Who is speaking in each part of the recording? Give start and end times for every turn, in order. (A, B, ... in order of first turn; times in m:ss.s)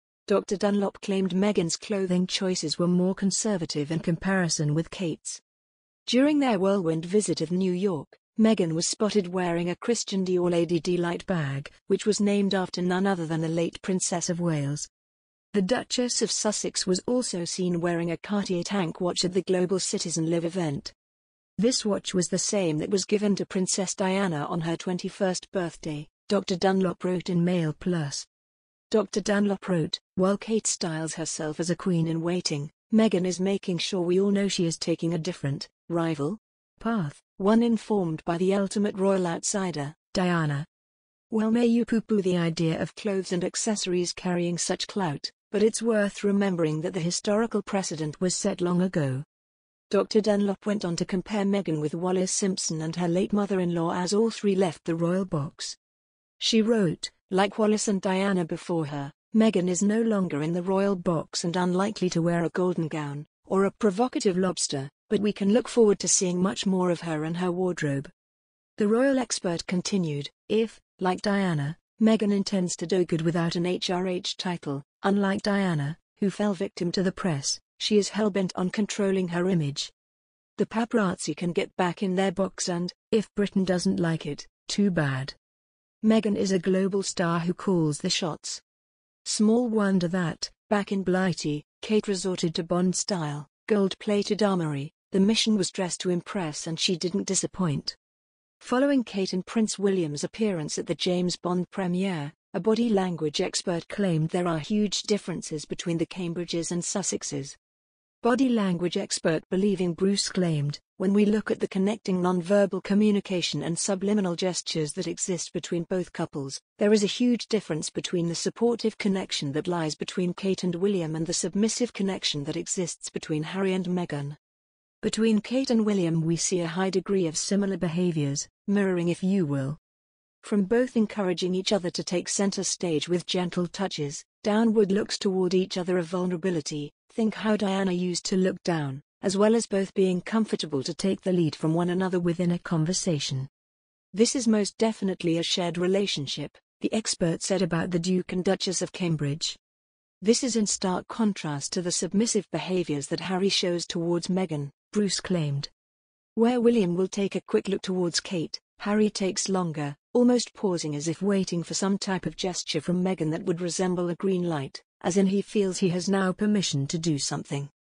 0:00.3-0:05.4 A
0:06.1-0:14.9 A
0:15.5-0:20.9 A
0:21.6-0:28.3 A
0:28.9-0:40.7 A
0:41.3-0:49.3 A
0:49.9-0:55.8 A
0:56.4-1:08.1 A
1:08.8-1:19.9 A
1:20.6-1:25.4 A
1:26.0-1:28.6 A
1:29.2-1:38.0 A
1:38.6-1:47.6 A
1:48.2-2:04.4 A
2:05.0-2:09.8 A
2:10.4-2:23.5 A
2:24.1-2:29.6 A
2:30.2-2:35.7 A
2:36.4-2:47.7 A